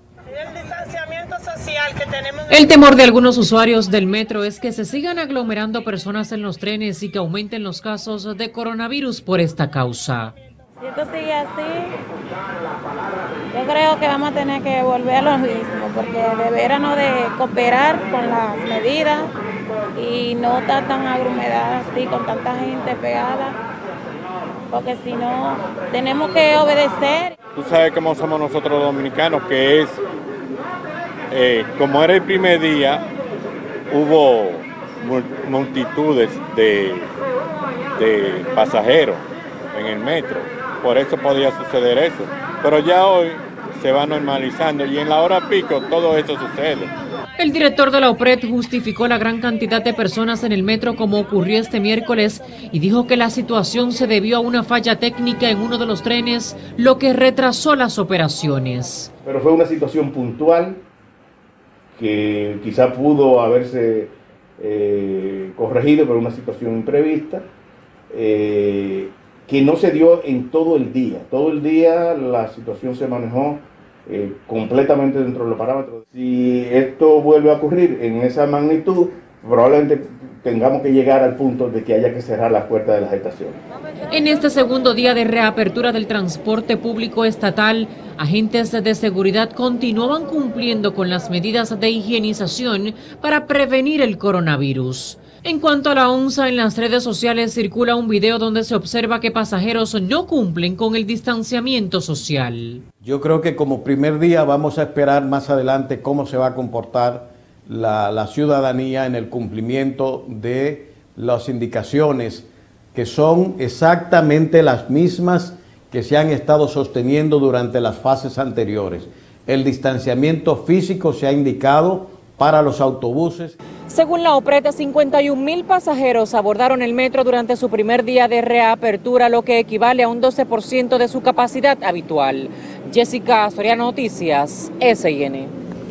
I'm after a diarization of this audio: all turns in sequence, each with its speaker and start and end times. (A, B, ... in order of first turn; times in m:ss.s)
0:00.6-0:01.8 A
0:02.5-0:10.3 B
0:10.8-0:12.0 A
0:13.5-0:19.3 A
0:20.0-0:23.6 A
0:24.7-0:27.4 A
0:27.5-0:30.0 C
0:31.3-0:33.0 C
0:33.9-0:37.1 C
0:38.0-0:46.9 C
0:47.4-0:59.1 B
0:59.2-1:00.8 D
1:01.9-1:07.4 D
1:08.1-1:23.6 D
1:24.1-1:42.8 B
1:43.0-2:03.6 E
2:03.9-2:15.5 B